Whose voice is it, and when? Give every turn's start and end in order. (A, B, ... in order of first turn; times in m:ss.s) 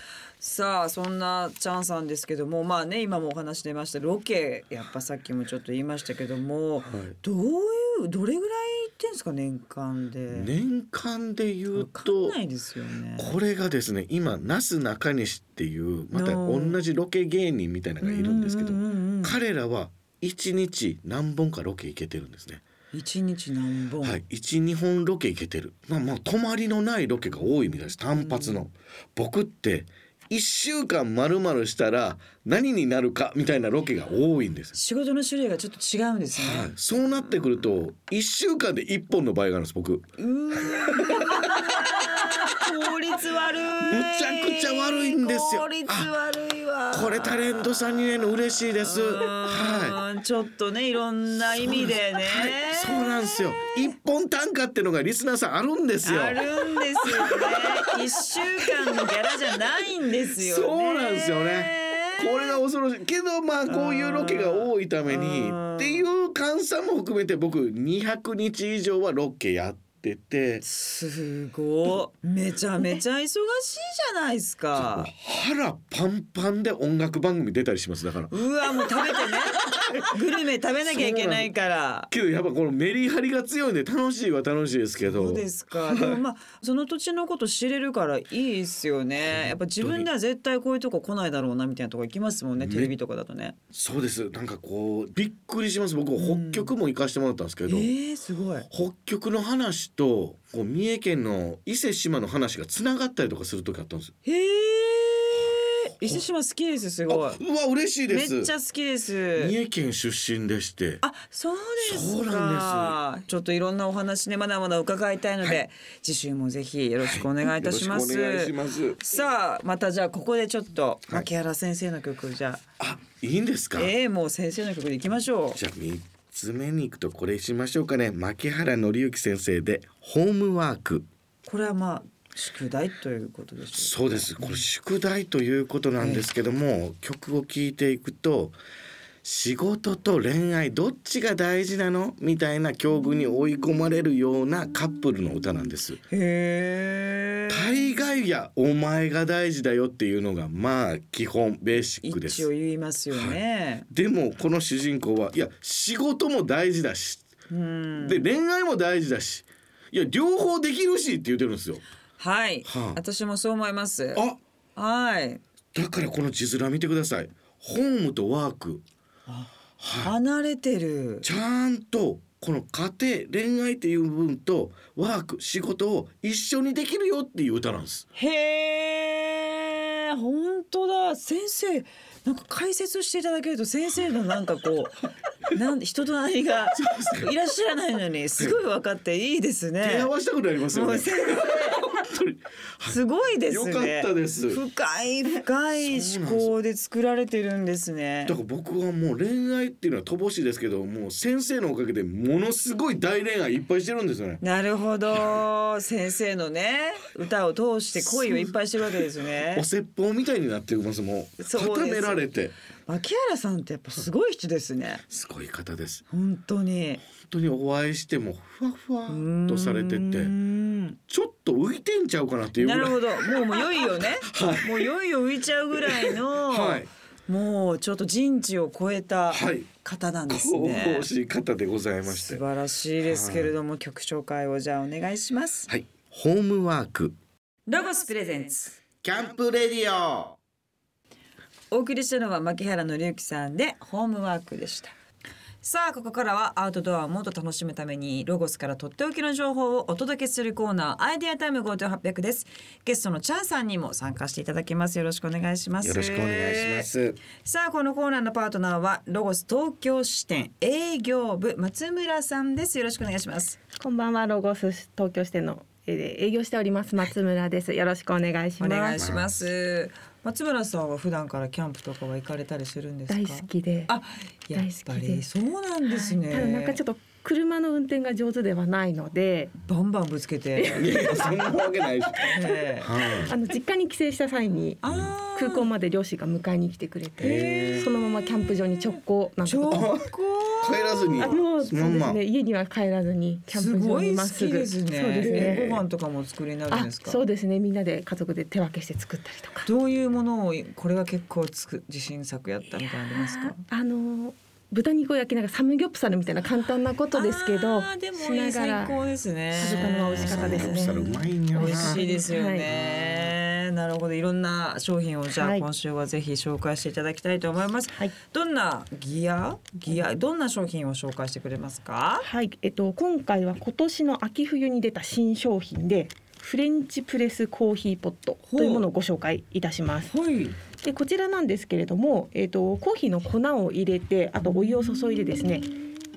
0:00.4-0:10.5 A
0:06.8-0:07.1 B
0:10.3-0:12.4 B
0:11.7-0:13.3 A
0:13.2-0:22.6 B
0:16.1-0:16.8 A
0:18.0-0:19.4 A
0:22.9-0:24.2 A
0:24.0-0:34.7 B
0:28.1-0:28.6 A
0:34.7-0:36.7 A
0:36.3-0:42.5 B
0:40.2-0:53.3 A
0:43.8-0:46.1 B
0:46.9-0:50.0 B
0:51.3-0:58.0 B
0:56.0-1:02.6 A
0:58.6-0:59.6 B
1:00.3-1:10.6 B
1:03.6-1:06.0 A
1:10.6-1:15.1 A
1:14.7-1:18.4 B
1:18.3-1:22.1 A
1:19.0-1:20.1 B
1:20.8-1:21.5 B
1:22.1-1:26.2 B
1:25.0-1:33.6 A
1:29.2-1:30.1 B
1:32.6-1:32.9 B
1:33.7-1:37.9 B
1:36.2-1:36.7 A
1:37.7-1:38.7 A
1:38.7-1:44.1 B
1:44.2-1:47.4 A
1:47.1-1:48.5 B
1:48.1-1:49.5 A
1:49.4-1:51.0 B
1:51.0-2:02.6 A
1:51.8-1:53.0 B
1:57.0-1:59.0 B
2:02.8-2:03.9 B
2:03.8-2:05.6 A
2:05.5-2:11.1 B
2:11.4-2:14.6 A
2:13.7-2:18.6 B
2:16.0-2:16.2 A
2:19.2-2:26.0 B
2:26.1-2:27.8 A
2:27.5-2:32.5 B
2:32.0-2:33.8 A
2:33.1-2:37.2 B
2:37.5-2:38.2 A
2:38.0-2:41.8 B
2:42.2-2:44.2 A
2:42.6-2:43.0 B
2:44.1-2:44.4 B
2:44.8-2:45.4 A
2:45.7-2:48.8 B
2:49.3-2:51.3 A
2:49.8-2:50.1 B
2:51.2-2:58.0 B
2:58.1-3:10.1 A
3:06.7-3:07.3 B
3:09.8-3:14.6 B
3:10.7-3:11.9 A
3:12.8-3:18.4 A
3:15.8-3:16.5 B
3:18.2-3:24.4 B
3:24.4-3:29.6 A
3:28.0-3:28.5 B
3:29.5-3:32.5 B
3:31.4-3:32.3 A
3:32.9-3:35.0 A
3:35.1-3:36.0 B
3:36.1-3:37.0 A
3:37.0-3:40.3 B
3:39.1-3:41.0 A
3:41.1-3:44.9 B
3:42.6-3:51.1 A
3:45.7-3:46.9 B
3:49.3-3:49.7 B
3:50.3-3:52.4 B
3:52.1-3:55.7 A
3:53.0-3:53.5 B
3:55.7-3:57.2 B
3:57.7-3:58.8 A
3:59.0-4:00.4 B
4:01.7-4:04.9 A
4:05.6-4:23.6 A
4:15.8-4:17.2 B
4:23.8-4:29.0 C
4:28.6-4:36.8 A
4:29.0-4:29.4 B
4:33.1-4:33.9 C
4:34.5-4:35.2 C
4:35.8-4:39.5 C
4:39.6-4:41.0 A
4:40.6-4:42.6 C
4:40.8-4:43.3 B
4:42.3-4:42.9 A
4:43.1-4:44.8 C
4:44.8-4:45.7 A
4:45.3-4:49.9 C
4:47.2-4:47.9 B
4:47.2-4:48.0 A
4:49.4-4:51.4 A
4:49.7-4:50.1 B
4:50.6-4:52.2 B
4:51.2-4:55.7 C
4:53.5-4:57.2 A
4:55.2-4:55.8 B
4:56.7-4:59.7 C
4:59.6-5:03.6 A
5:03.2-5:12.7 C
5:07.1-5:22.2 A
5:09.6-5:12.0 B
5:15.4-5:15.6 C
5:22.2-5:30.1 C
5:28.5-5:28.8 A
5:30.1-5:30.6 A
5:30.8-5:35.7 C
5:35.0-5:35.4 A